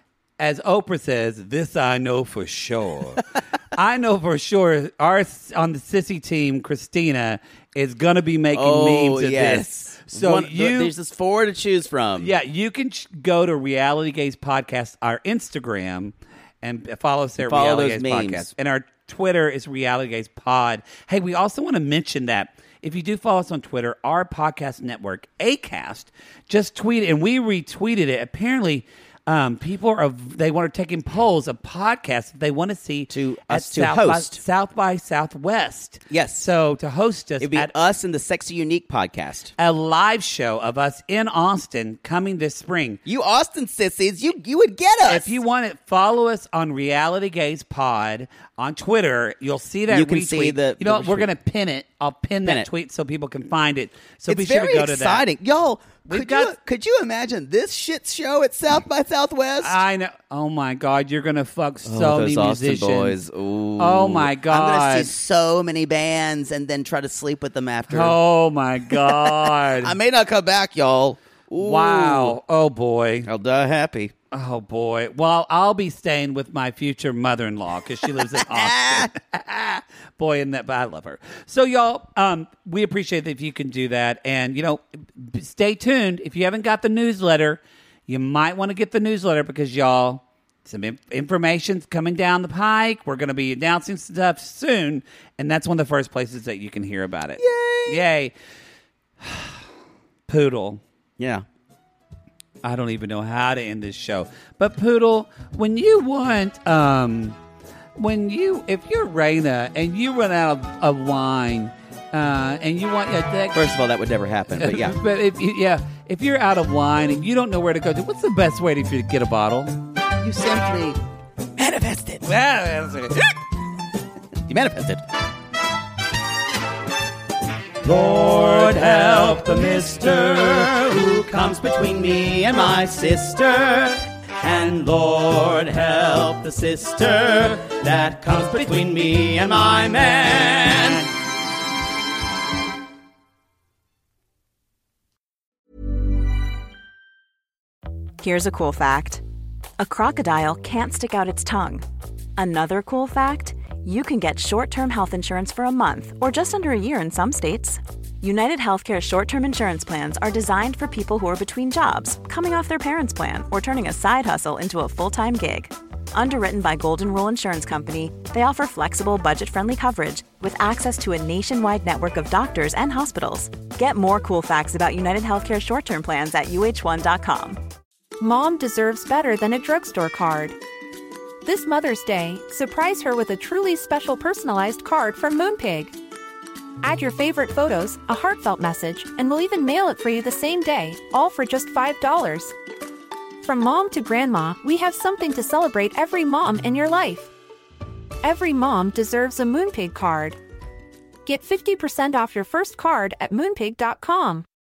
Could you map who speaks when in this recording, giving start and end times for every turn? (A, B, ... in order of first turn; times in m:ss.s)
0:00.4-0:10.9 A
0:08.5-0:12.3 B
0:12.2-0:37.7 A
0:17.4-0:18.5 B
0:33.1-0:34.4 B
0:36.1-0:36.5 B
0:37.4-0:39.5 B
0:39.6-0:43.0 A
0:43.0-0:45.4 B
0:45.0-0:55.3 A
0:49.9-0:51.3 B
0:54.3-0:59.8 B
0:56.0-0:56.6 A
0:59.6-1:03.2 A
1:01.8-1:08.2 B
1:03.8-1:05.1 A
1:07.9-1:10.0 A
1:09.7-1:12.4 B
1:11.6-1:13.3 A
1:13.2-1:14.1 B
1:14.3-1:38.3 A
1:18.4-1:19.1 B
1:37.4-1:38.0 B
1:39.2-1:39.7 A
1:40.3-1:40.8 A
1:41.2-1:41.4 B
1:42.6-1:47.4 A
1:48.0-1:53.7 A
1:53.5-1:55.0 B
1:54.5-1:59.8 A
2:00.2-2:01.0 B
2:01.6-2:02.3 B
2:02.2-2:03.4 A
2:04.5-2:05.0 B
2:07.8-2:21.0 B
2:08.4-2:09.7 A
2:28.2-2:29.2 C
2:29.8-2:31.8 C
2:32.4-2:57.6 C
2:58.2-3:00.6 D
3:01.4-3:05.9 D
3:06.8-3:12.5 D
3:13.4-3:17.3 D
3:18.2-3:20.4 D
3:21.2-3:24.4 D